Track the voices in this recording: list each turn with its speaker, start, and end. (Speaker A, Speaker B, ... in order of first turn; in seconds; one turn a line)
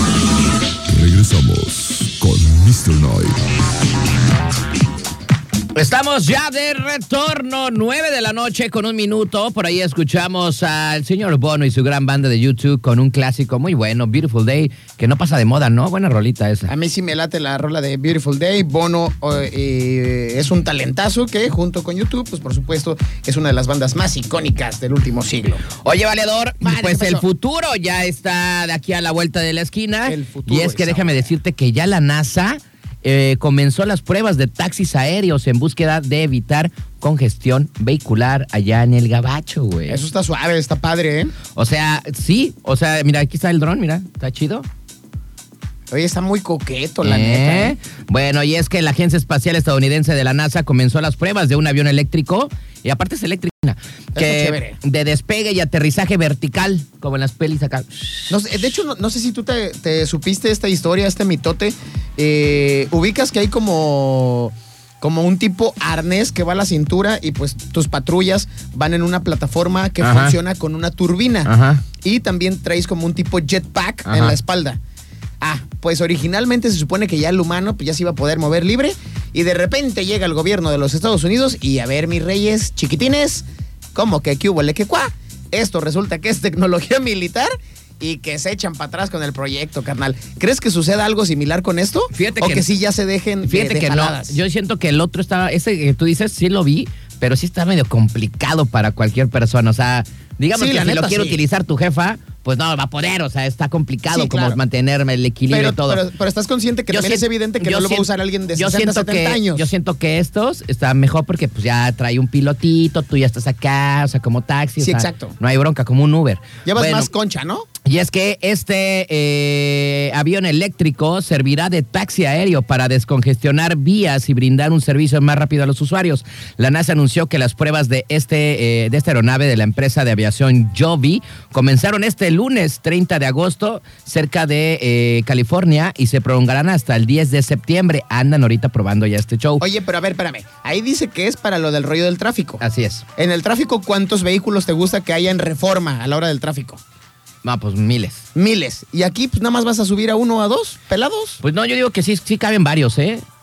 Speaker A: 0.9-3.4
Speaker B: 5.7-16.7
Speaker C: 16.7-25.6
Speaker B: 25.8-40.0
Speaker C: 26.6-27.2
Speaker C: 30.1-31.3
Speaker C: 39.9-41.3
Speaker B: 41.5-44.7
Speaker C: 45.9-47.7
Speaker B: 47.0-58.3
Speaker C: 54.1-54.8
Speaker C: 58.3-74.8
Speaker B: 70.0-70.4
Speaker B: 71.4-71.8
Speaker B: 74.0-74.4
Speaker C: 75.4-94.4
Speaker B: 92.1-92.7
Speaker B: 93.5-106.0
Speaker C: 100.5-101.4
Speaker C: 104.1-104.6
Speaker C: 105.5-109.7
Speaker B: 106.9-117.1
Speaker C: 114.8-115.3
Speaker C: 116.6-117.7
Speaker B: 117.8-139.6
Speaker C: 139.6-142.6
Speaker B: 142.6-143.0
Speaker C: 143.2-146.8
Speaker B: 147.4-148.2
Speaker C: 148.3-151.4
Speaker B: 151.4-153.2